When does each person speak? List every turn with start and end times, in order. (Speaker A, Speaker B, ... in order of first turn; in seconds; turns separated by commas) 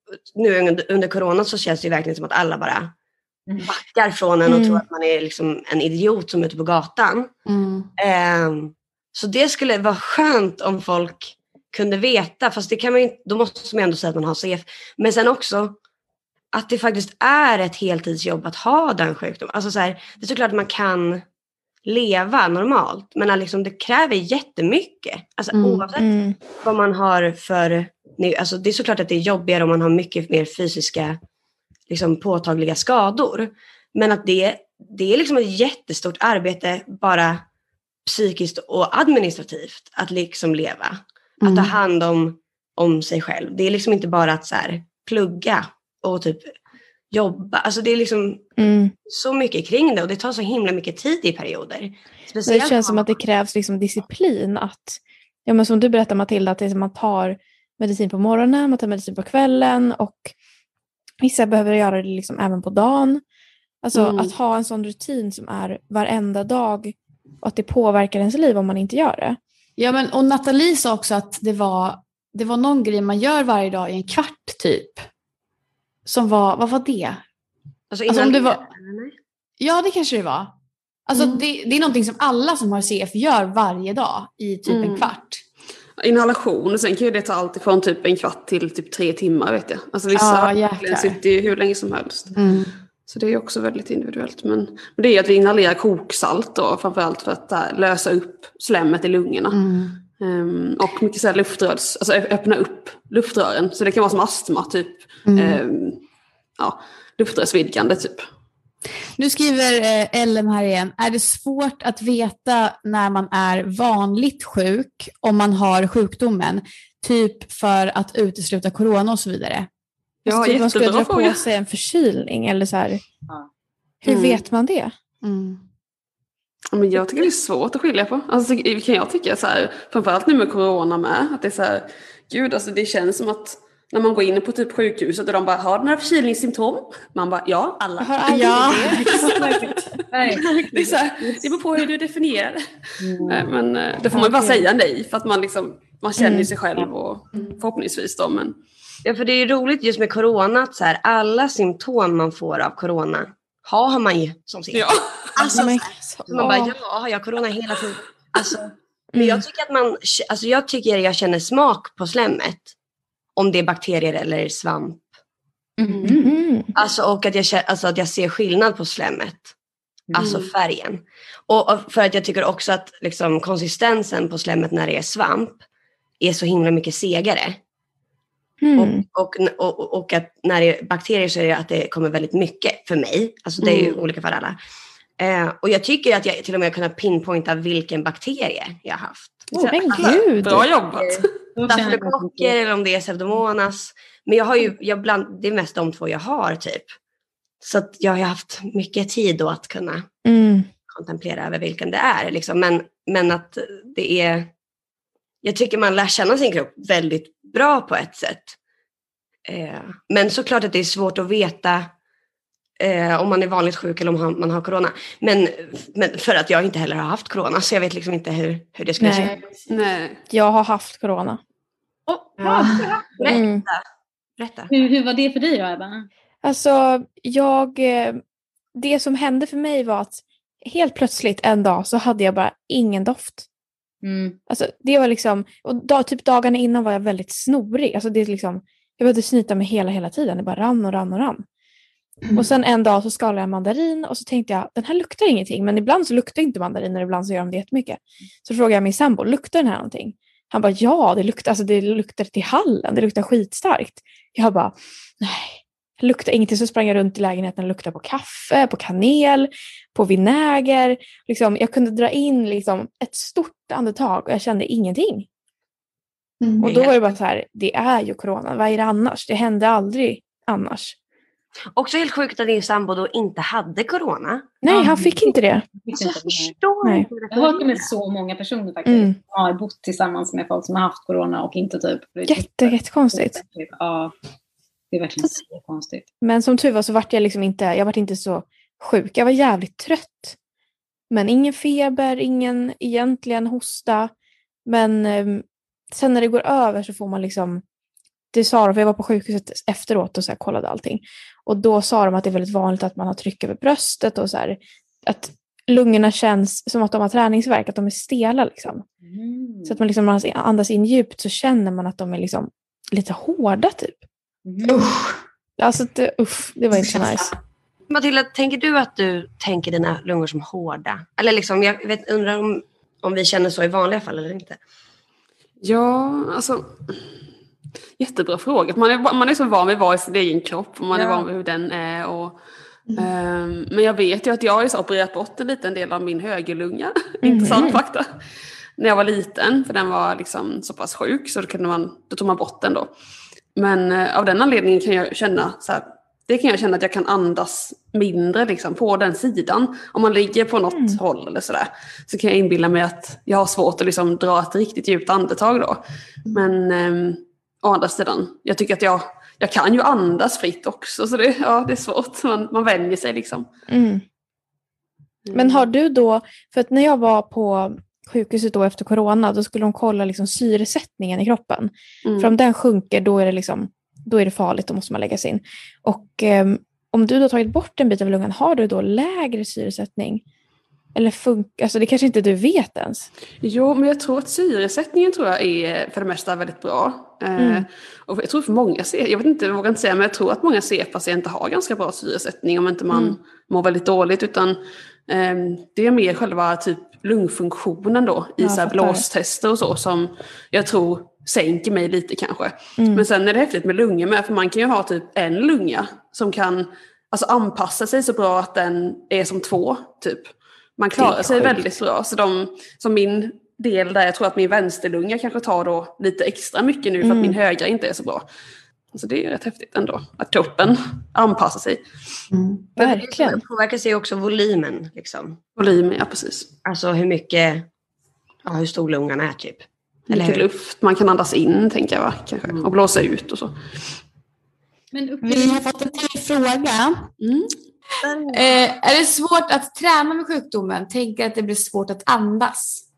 Speaker A: 0.3-2.9, Speaker A: 3.6-7.3, Speaker B: 4.5-4.8, Speaker C: 7.5-7.9, Speaker A: 8.0-15.8, Speaker A: 16.5-21.2, Speaker A: 21.8-31.2, Speaker C: 25.5-25.9, Speaker B: 25.9-26.4, Speaker A: 31.9-37.4, Speaker A: 38.0-46.5, Speaker C: 41.4-41.7, Speaker A: 47.1-53.1, Speaker B: 48.6-48.9, Speaker B: 52.5-60.3, Speaker B: 61.2-63.2, Speaker B: 63.8-69.4, Speaker D: 63.9-64.3, Speaker C: 69.8-75.0, Speaker C: 76.0-77.2, Speaker A: 77.9-79.1, Speaker C: 78.1-78.6, Speaker C: 79.6-80.5, Speaker C: 81.1-85.4, Speaker D: 84.7-85.1, Speaker D: 86.0-92.4, Speaker C: 90.1-91.2, Speaker C: 92.3-92.7, Speaker D: 93.0-99.6, Speaker C: 99.5-100.0, Speaker D: 100.2-106.0, Speaker C: 105.3-105.6, Speaker D: 106.6-108.2, Speaker C: 109.2-119.7, Speaker D: 120.2-121.5, Speaker B: 120.2-123.0, Speaker B: 124.0-124.9, Speaker D: 124.0-124.4, Speaker C: 125.2-125.6, Speaker D: 126.7-139.7, Speaker B: 138.0-139.1, Speaker C: 138.3-139.3, Speaker E: 139.1-141.5, Speaker D: 140.3-148.6, Speaker E: 143.0-143.5, Speaker B: 144.1-144.7, Speaker B: 146.2-146.5, Speaker A: 149.0-162.7, Speaker D: 154.7-155.4, Speaker B: 155.5-156.8, Speaker B: 159.1-159.4, Speaker A: 163.3-165.1, Speaker E: 165.8-166.3, Speaker B: 166.0-166.7, Speaker A: 166.7-169.5, Speaker A: 170.1-175.6, Speaker D: 170.2-170.5, Speaker A: 176.2-177.6, Speaker B: 178.6-179.0, Speaker A: 178.7-184.6, Speaker A: 185.2-190.3, Speaker D: 189.5-191.3, Speaker B: 189.7-190.7, Speaker E: 190.9-192.5, Speaker A: 191.6-196.9, Speaker A: 197.6-200.1, Speaker B: 200.2-200.7, Speaker A: 200.9-204.5, Speaker A: 205.4-208.6, Speaker A: 209.5-211.9, Speaker A: 212.8-219.4, Speaker B: 219.0-219.3, Speaker D: 219.7-220.2, Speaker B: 220.3-221.4, Speaker E: 222.1-223.4, Speaker A: 222.4-223.8, Speaker B: 223.3-223.6, Speaker A: 224.4-224.7, Speaker E: 224.7-226.1, Speaker B: 226.4-228.2, Speaker B: 228.7-233.4, Speaker E: 234.0-234.4, Speaker B: 234.5-241.4, Speaker B: 242.3-265.3, Speaker A: 266.6-267.1, Speaker B: 266.6-270.9, Speaker A: 271.7-274.6, Speaker B: 274.6-275.6, Speaker E: 275.8-276.5, Speaker A: 275.9-277.9, Speaker B: 276.8-277.1, Speaker E: 277.3-284.1, Speaker B: 278.8-279.2, Speaker B: 282.3-283.4, Speaker E: 284.9-286.0, Speaker B: 286.2-290.4, Speaker B: 291.1-294.1, Speaker B: 294.6-297.6, Speaker B: 298.3-308.8, Speaker E: 309.0-309.8, Speaker B: 309.6-314.0, Speaker E: 314.4-314.8, Speaker C: 314.6-315.2, Speaker B: 315.6-317.3, Speaker C: 316.7-317.3, Speaker A: 317.9-324.6, Speaker D: 325.6-327.0, Speaker D: 328.0-332.4, Speaker A: 330.9-331.2, Speaker D: 332.9-338.1, Speaker B: 337.2-337.8, Speaker D: 338.8-342.9, Speaker D: 343.6-355.8, Speaker B: 350.7-351.0, Speaker C: 356.3-356.5, Speaker D: 356.3-363.5, Speaker B: 363.7-364.0, Speaker D: 365.2-365.6, Speaker B: 365.3-380.2, Speaker D: 372.0-372.3, Speaker B: 380.9-383.1, Speaker D: 383.4-418.2, Speaker B: 387.4-387.7, Speaker B: 392.9-393.2, Speaker B: 398.4-399.1, Speaker B: 402.8-403.1, Speaker B: 410.9-411.6, Speaker B: 417.0-417.4, Speaker D: 418.9-421.9, Speaker C: 422.3-422.7, Speaker A: 422.8-425.4, Speaker B: 422.8-423.4, Speaker D: 425.6-426.5, Speaker A: 426.6-427.7, Speaker A: 428.4-430.4, Speaker D: 430.1-433.5, Speaker C: 434.9-437.1, Speaker E: 435.2-435.6, Speaker D: 437.2-437.5, Speaker A: 438.0-438.5, Speaker C: 438.3-442.8